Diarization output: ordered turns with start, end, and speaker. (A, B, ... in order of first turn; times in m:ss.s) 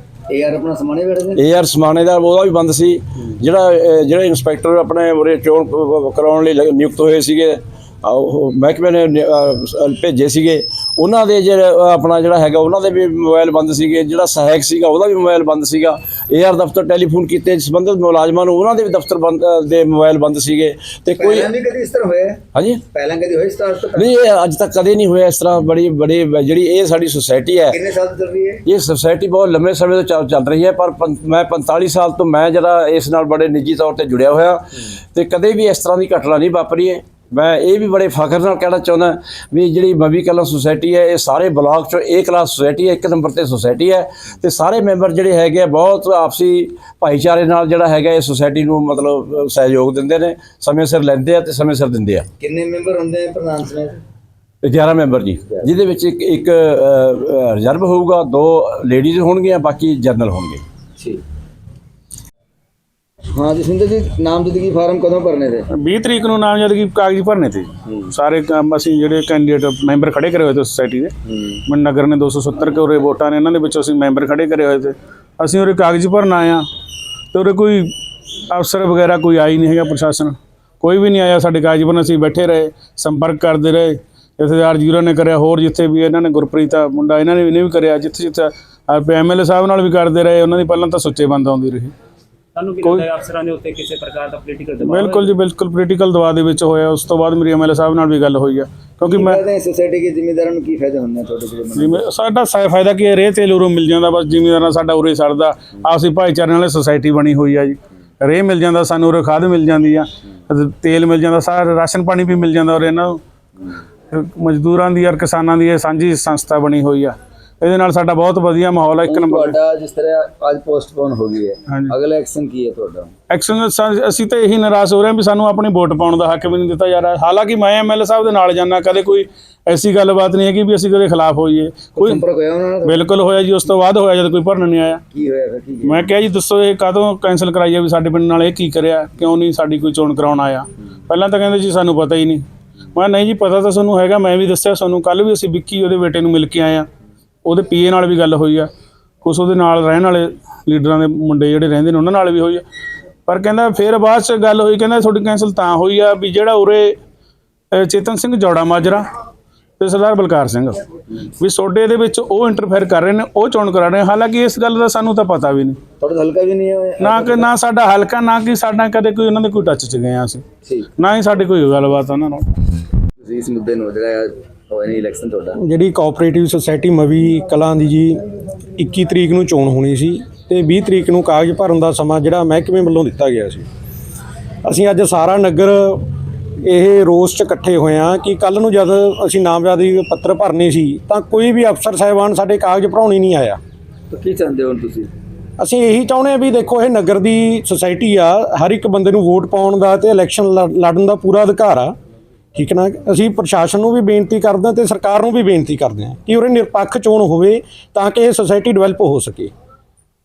0:00.3-0:01.4 A
0:01.4-0:21.5 B
0:21.2-0:22.4 A
0:22.6-0:22.8 B
0:22.9-0:24.1 A
0:24.0-0:27.8 B
0:27.7-0:28.6 A
0:28.7-0:52.3 B
0:52.4-0:54.0 A
0:54.6-1:00.6 B
1:03.3-1:05.7 A
1:05.8-1:11.1 C
1:11.7-1:16.6 C
1:17.3-1:17.9 C
1:18.5-1:31.9 C
1:32.6-1:35.4 D
1:34.8-1:39.4 C
1:39.1-1:42.0 A
1:41.8-1:53.2 C
1:54.1-1:59.6 C
1:59.1-2:03.1 A
2:01.7-2:02.0 C
2:03.3-2:12.2 C
2:12.0-2:13.0 A
2:12.8-2:15.0 C
2:15.1-2:16.1 A
2:15.9-2:22.4 C
2:23.0-2:26.9 C
2:27.4-2:28.7 C
2:29.2-2:32.6 C
2:33.3-2:37.0 C
2:37.7-2:39.1 C
2:39.8-2:40.8 C
2:41.4-2:45.8 C
2:46.0-2:47.5 A
2:47.0-2:50.4 C
2:50.6-2:50.9 A
2:51.0-2:52.5 C
2:53.2-2:55.6 A
2:55.6-3:03.7 E
3:04.6-3:06.0 E
3:06.6-3:13.6 E
3:14.1-3:15.1 A
3:15.6-3:21.9 E
3:22.6-3:29.5 E